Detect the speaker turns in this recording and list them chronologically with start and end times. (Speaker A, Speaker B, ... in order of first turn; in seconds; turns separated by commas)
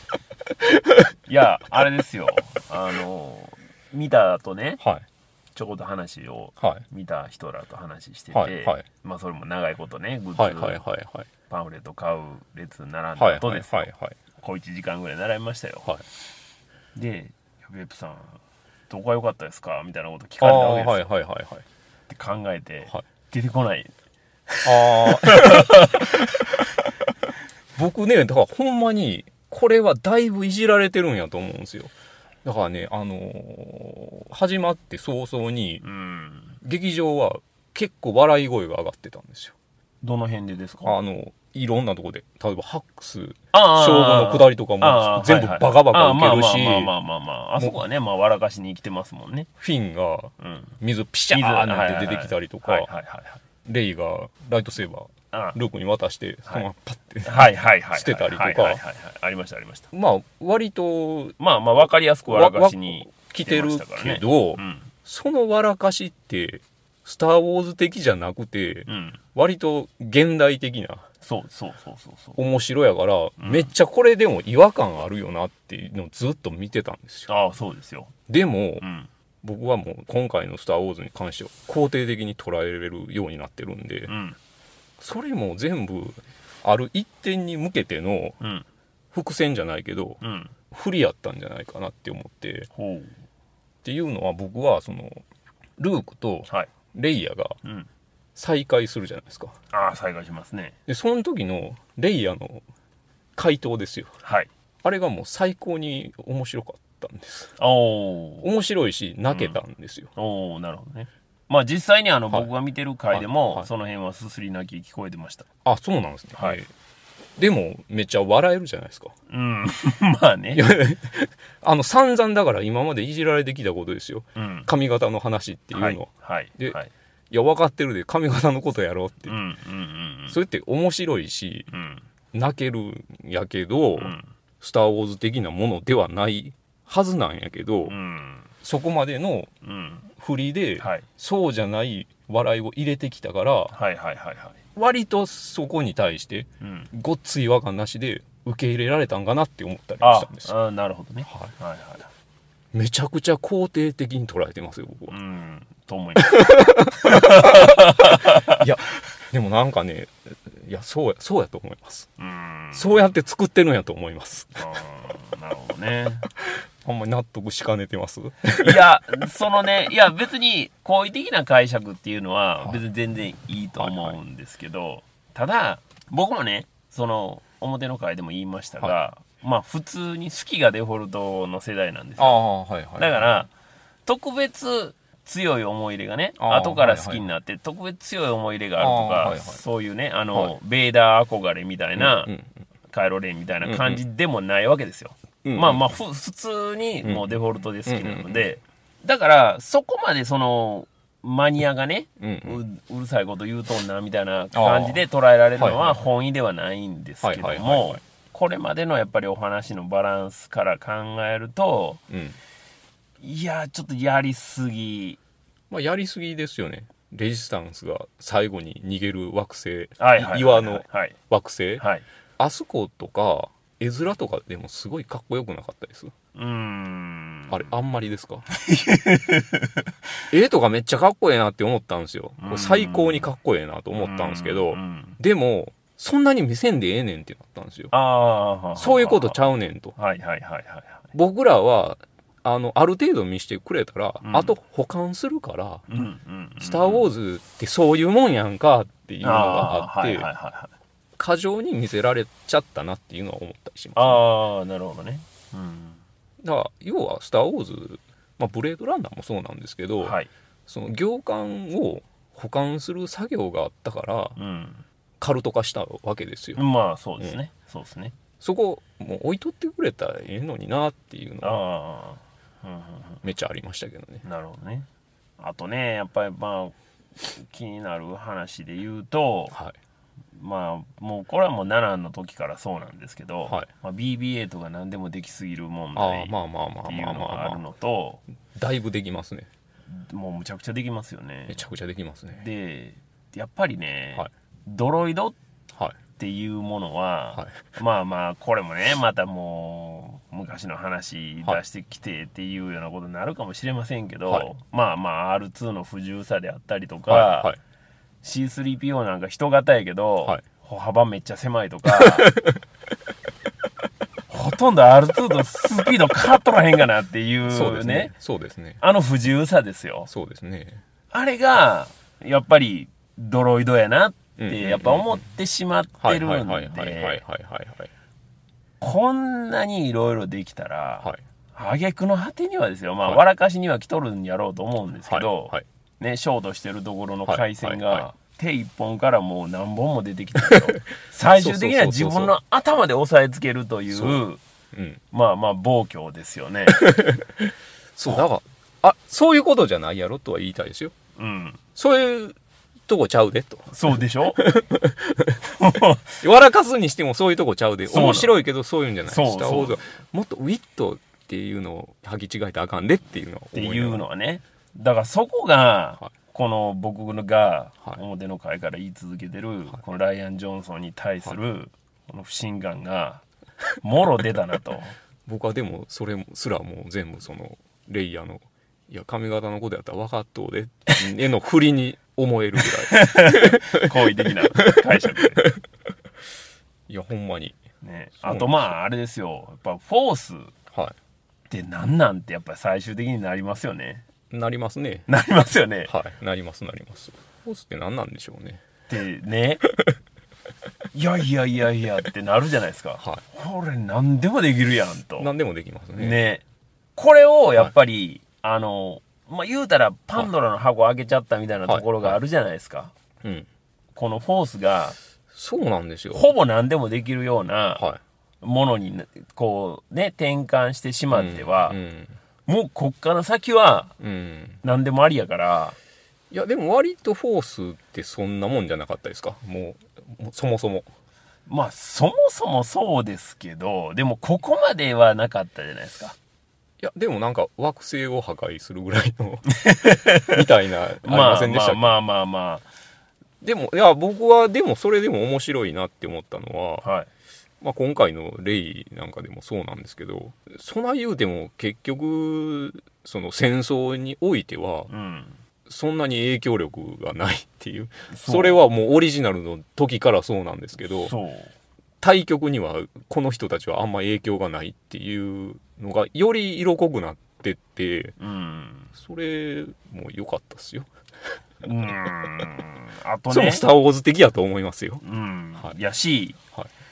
Speaker A: 0.6-1.1, Speaker B: 1.3-4.8, Speaker A: 4.8-5.0, Speaker B: 5.5-10.8, Speaker A: 6.6-6.8, Speaker A: 8.3-8.8, Speaker A: 10.3-11.3, Speaker B: 11.5-15.9, Speaker A: 13.2-14.2, Speaker B: 16.9-18.4, Speaker B: 18.9-21.1, Speaker A: 20.4-21.6, Speaker B: 22.1-23.9, Speaker B: 24.5-26.2, Speaker A: 24.6-26.4, Speaker A: 27.8-31.9, Speaker A: 32.4-35.8, Speaker B: 35.8-36.5, Speaker A: 36.6-39.5, Speaker B: 40.0-40.9, Speaker A: 40.8-46.9, Speaker B: 43.5-49.5, Speaker A: 49.6-52.9, Speaker B: 50.4-50.7, Speaker B: 51.3-53.4, Speaker A: 53.6-58.8, Speaker B: 55.3-55.6, Speaker B: 57.2-59.9, Speaker A: 59.9-61.4, Speaker B: 61.4-64.9, Speaker A: 62.2-71.0, Speaker B: 68.9-69.2, Speaker B: 71.2-72.4, Speaker A: 72.4-77.3, Speaker B: 73.4-73.7, Speaker B: 77.3-78.1, Speaker A: 78.3-78.8, Speaker B: 78.8-79.1, Speaker A: 79.4-84.1, Speaker B: 84.1-84.4, Speaker A: 85.0-88.4, Speaker B: 88.4-88.6, Speaker A: 89.1-90.2, Speaker B: 90.2-90.5, Speaker A: 90.7-92.7, Speaker B: 92.7-93.1, Speaker A: 93.8-95.2, Speaker A: 95.8-97.6, Speaker A: 98.3-99.5, Speaker B: 99.7-100.7, Speaker A: 100.9-102.6, Speaker A: 103.3-104.1, Speaker B: 104.2-104.5, Speaker A: 104.8-107.5, Speaker B: 107.6-108.5, Speaker A: 108.4-110.1, Speaker B: 109.3-109.6, Speaker B: 110.2-115.5, Speaker A: 113.1-113.7, Speaker A: 115.6-116.7, Speaker A: 117.4-119.1, Speaker B: 119.3-120.6, Speaker A: 120.5-126.8, Speaker B: 124.3-124.7, Speaker B: 125.7-126.9, Speaker A: 127.3-129.3, Speaker B: 129.3-130.4, Speaker A: 130.3-131.7, Speaker B: 131.7-132.0, Speaker A: 132.3-137.9, Speaker B: 134.0-134.3, Speaker B: 137.8-138.5, Speaker A: 138.6-139.5, Speaker B: 139.6-140.0, Speaker A: 140.1-143.7, Speaker B: 140.8-141.1, Speaker B: 143.7-144.6, Speaker A: 144.7-150.5, Speaker B: 146.6-146.9, Speaker B: 150.0-152.1, Speaker A: 152.7-155.1, Speaker B: 155.1-158.6, Speaker A: 156.2-162.1, Speaker B: 162.2-163.0, Speaker A: 162.7-164.6, Speaker B: 164.6-166.3, Speaker A: 166.4-168.8, Speaker B: 168.6-182.4, Speaker A: 173.8-174.2, Speaker A: 182.2-183.2, Speaker B: 183.0-183.5, Speaker B: 184.1-192.3, Speaker A: 186.4-187.2, Speaker A: 188.8-189.6, Speaker A: 192.0-192.5, Speaker B: 192.9-212.0, Speaker A: 193.6-194.0, Speaker A: 195.4-195.8, Speaker A: 197.0-197.3, Speaker A: 197.8-198.4, Speaker A: 202.2-202.6, Speaker A: 204.5-205.0, Speaker A: 205.6-206.0, Speaker A: 207.2-208.0, Speaker A: 212.1-212.4, Speaker B: 213.2-215.2, Speaker A: 215.7-221.8, Speaker B: 220.0-221.2, Speaker B: 221.8-222.0, Speaker A: 222.4-226.1, Speaker B: 226.3-227.7, Speaker A: 227.5-228.4, Speaker B: 228.5-229.7, Speaker A: 230.3-237.9, Speaker B: 232.4-233.3, Speaker B: 233.9-235.2, Speaker B: 237.9-239.4, Speaker A: 238.8-239.9, Speaker B: 239.9-241.1, Speaker A: 241.1-245.8, Speaker B: 244.2-244.5, Speaker B: 245.9-247.1, Speaker A: 246.6-250.3, Speaker B: 249.2-250.7, Speaker A: 251.2-254.2, Speaker B: 253.9-256.0, Speaker A: 256.4-264.4, Speaker B: 260.0-260.3, Speaker B: 264.4-264.8, Speaker A: 265.2-266.6, Speaker B: 266.6-268.1, Speaker A: 268.4-271.6, Speaker B: 271.4-273.2, Speaker A: 273.2-274.2, Speaker B: 274.2-274.9, Speaker B: 275.4-279.6, Speaker B: 280.4-286.3, Speaker A: 285.9-287.6, Speaker B: 286.8-288.2, Speaker A: 288.5-289.5, Speaker B: 289.9-291.6, Speaker A: 291.5-292.4, Speaker B: 292.3-295.4, Speaker B: 296.2-307.5, Speaker A: 297.3-297.6, Speaker A: 307.1-307.6, Speaker B: 308.2-312.3, Speaker A: 311.9-312.6, Speaker B: 314.3-318.1, Speaker A: 317.5-318.8, Speaker B: 318.8-320.1, Speaker A: 320.1-320.8, Speaker B: 321.1-327.2, Speaker A: 324.4-325.2, Speaker A: 326.0-327.9, Speaker B: 328.8-344.4, Speaker A: 335.1-335.6, Speaker A: 337.3-338.0, Speaker A: 341.3-342.3, Speaker A: 343.9-344.2, Speaker A: 344.7-345.0, Speaker B: 345.1-347.0, Speaker A: 346.7-350.9, Speaker B: 351.1-351.6, Speaker A: 351.8-352.4, Speaker A: 352.9-353.7, Speaker B: 353.7-354.4, Speaker A: 354.4-355.4, Speaker B: 355.4-356.2, Speaker A: 356.2-364.0, Speaker B: 357.9-358.4, Speaker B: 359.1-359.8, Speaker B: 363.5-373.2, Speaker B: 373.8-374.9, Speaker A: 375.2-385.5, Speaker B: 382.6-385.5, Speaker A: 386.9-387.6, Speaker B: 387.8-390.5, Speaker A: 388.2-388.7, Speaker B: 391.5-394.0, Speaker A: 394.3-395.1, Speaker B: 395.1-395.9, Speaker A: 395.9-398.6, Speaker B: 398.9-399.6, Speaker B: 400.9-405.3, Speaker A: 405.2-406.2, Speaker B: 406.0-406.4, Speaker B: 406.9-412.9, Speaker A: 411.6-412.2, Speaker B: 413.9-414.9, Speaker A: 415.3-416.3, Speaker B: 416.1-417.8, Speaker B: 418.4-421.8, Speaker A: 421.1-422.2, Speaker B: 422.4-423.9, Speaker A: 424.0-424.6, Speaker B: 424.6-425.8, Speaker A: 426.3-430.9, Speaker B: 431.5-436.1, Speaker A: 436.8-439.6, Speaker B: 439.5-440.4, Speaker A: 440.2-441.9, Speaker B: 441.0-442.6, Speaker A: 443.4-446.9, Speaker B: 446.8-447.1, Speaker A: 447.6-454.9, Speaker B: 454.9-455.4, Speaker A: 455.7-461.1, Speaker B: 458.1-458.6, Speaker B: 461.0-461.5, Speaker A: 462.0-468.1, Speaker B: 468.2-468.9, Speaker A: 468.9-470.9, Speaker B: 471.6-473.6, Speaker A: 473.3-475.0, Speaker B: 475.0-476.4